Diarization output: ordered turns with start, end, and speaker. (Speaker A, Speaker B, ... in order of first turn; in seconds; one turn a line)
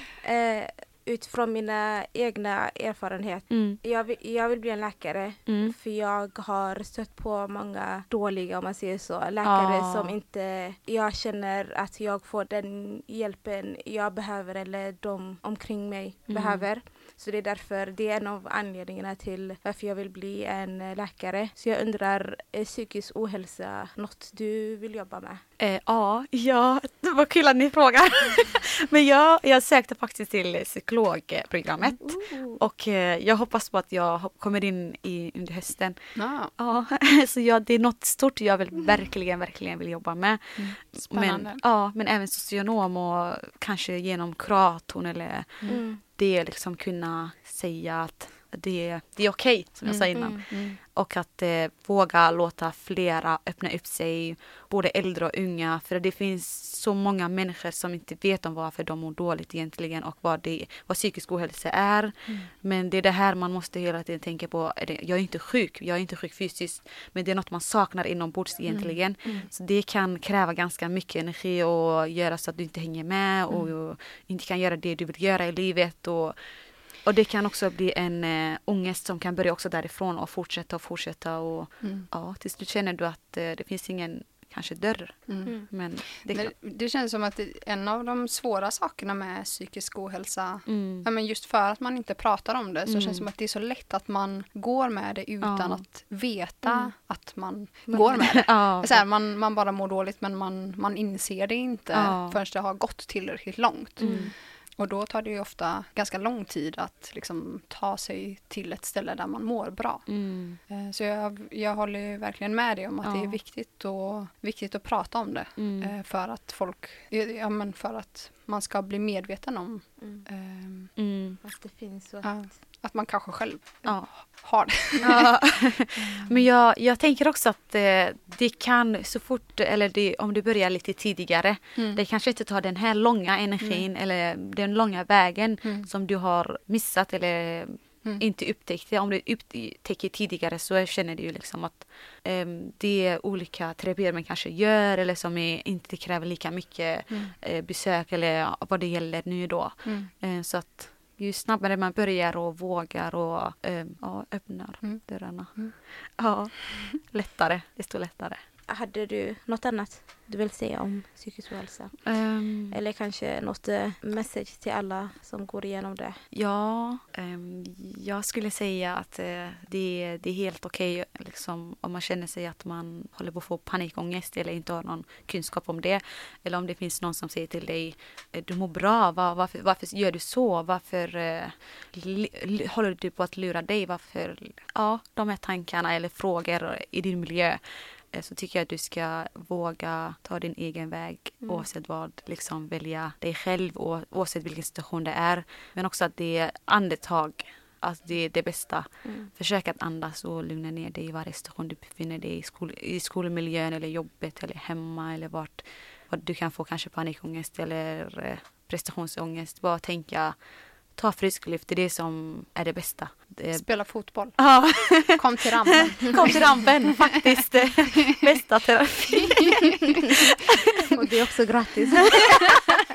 Speaker A: 0.2-25.4
Speaker B: 3.5-3.8
Speaker B: 5.5-5.7
Speaker B: 9.4-10.2
Speaker B: 16.3-16.6
Speaker B: 25.6-76.4
Speaker A: 32.0-32.6
Speaker C: 36.1-36.5
Speaker C: 40.6-41.6
Speaker A: 45.7-46.0
Speaker C: 49.9-50.8
Speaker A: 50.1-50.4
Speaker C: 68.7-69.4
Speaker B: 77.0-86.5
Speaker C: 85.3-110.1
Speaker B: 90.7-91.0
Speaker B: 92.9-93.2
Speaker B: 95.4-95.8
Speaker B: 97.9-99.0
Speaker B: 101.9-102.4
Speaker B: 104.0-104.3
Speaker A: 104.0-104.3
Speaker B: 110.1-110.6
Speaker C: 110.7-120.9
Speaker B: 113.0-113.4
Speaker B: 115.6-115.9
Speaker B: 121.0-121.4
Speaker A: 121.4-122.4
Speaker C: 122.2-125.3
Speaker B: 123.8-124.4
Speaker B: 125.0-158.4
Speaker C: 125.9-126.4
Speaker C: 133.6-133.8
Speaker C: 149.8-150.1
Speaker A: 158.7-162.0
Speaker B: 162.0-162.8
Speaker A: 162.7-166.2
Speaker B: 166.3-187.6
Speaker B: 188.1-210.3
Speaker B: 210.9-213.7
Speaker C: 213.5-214.4
Speaker B: 214.3-220.5
Speaker C: 215.1-216.9
Speaker C: 219.2-220.1
Speaker A: 220.9-222.3
Speaker B: 222.0-222.5